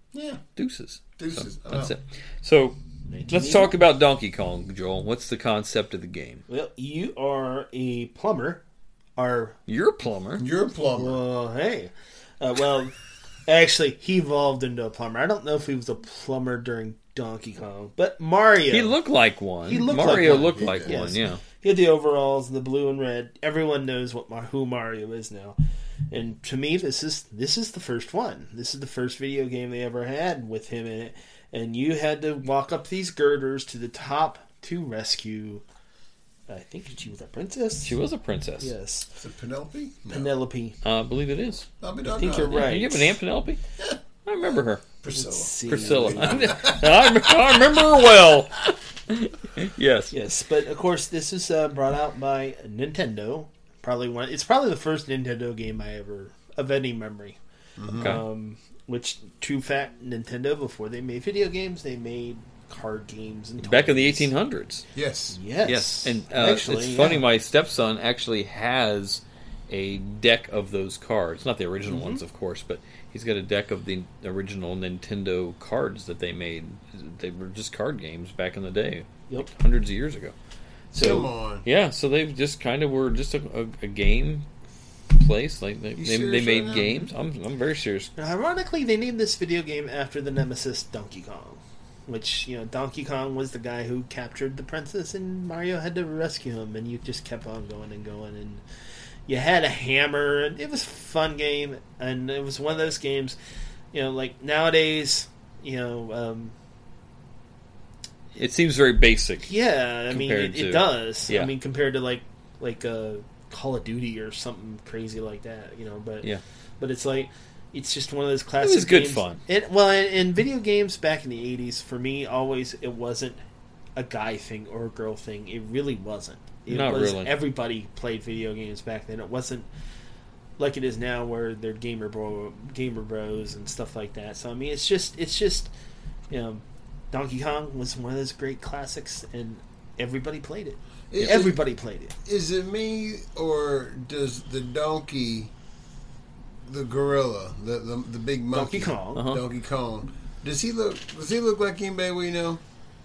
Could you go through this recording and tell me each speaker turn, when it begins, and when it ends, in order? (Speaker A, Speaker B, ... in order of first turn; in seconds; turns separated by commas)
Speaker A: 0.1-0.4, Speaker B: 0.6-2.8, Speaker A: 1.2-1.9, Speaker C: 3.1-3.8, Speaker B: 3.3-6.4, Speaker C: 6.5-8.6, Speaker C: 9.2-9.6, Speaker B: 9.7-10.4, Speaker A: 10.4-11.2, Speaker C: 10.9-12.9, Speaker C: 13.5-18.9, Speaker B: 18.7-21.4, Speaker C: 19.6-25.6, Speaker A: 19.9-20.9, Speaker C: 26.1-35.6, Speaker C: 36.5-37.9, Speaker B: 37.8-38.7, Speaker C: 38.6-39.1, Speaker A: 39.1-40.4, Speaker C: 40.1-40.8, Speaker B: 40.8-41.7, Speaker A: 41.8-42.8, Speaker C: 42.1-43.1, Speaker B: 42.3-43.6, Speaker A: 43.8-47.8, Speaker B: 44.2-44.8, Speaker C: 45.1-46.5, Speaker B: 45.7-50.1, Speaker C: 50.1-57.4, Speaker A: 57.8-58.1, Speaker C: 58.0-64.3, Speaker B: 58.0-58.2, Speaker B: 63.6-64.8, Speaker A: 64.9-65.4, Speaker C: 65.3-67.2, Speaker B: 65.6-80.3, Speaker C: 71.9-72.2, Speaker B: 80.9-84.5, Speaker C: 80.9-81.2, Speaker A: 80.9-81.7, Speaker B: 85.1-88.1, Speaker A: 86.0-87.1, Speaker C: 88.2-98.6, Speaker C: 99.3-103.4, Speaker C: 103.9-106.5, Speaker B: 108.4-109.5, Speaker C: 109.4-116.3, Speaker B: 110.1-111.5, Speaker C: 116.8-123.4, Speaker B: 118.6-119.4, Speaker C: 124.0-129.7, Speaker B: 126.7-127.4, Speaker C: 130.6-135.7, Speaker C: 136.3-142.1, Speaker A: 141.1-141.6, Speaker A: 142.2-145.5, Speaker A: 146.6-152.6, Speaker C: 148.5-149.3, Speaker B: 149.2-149.4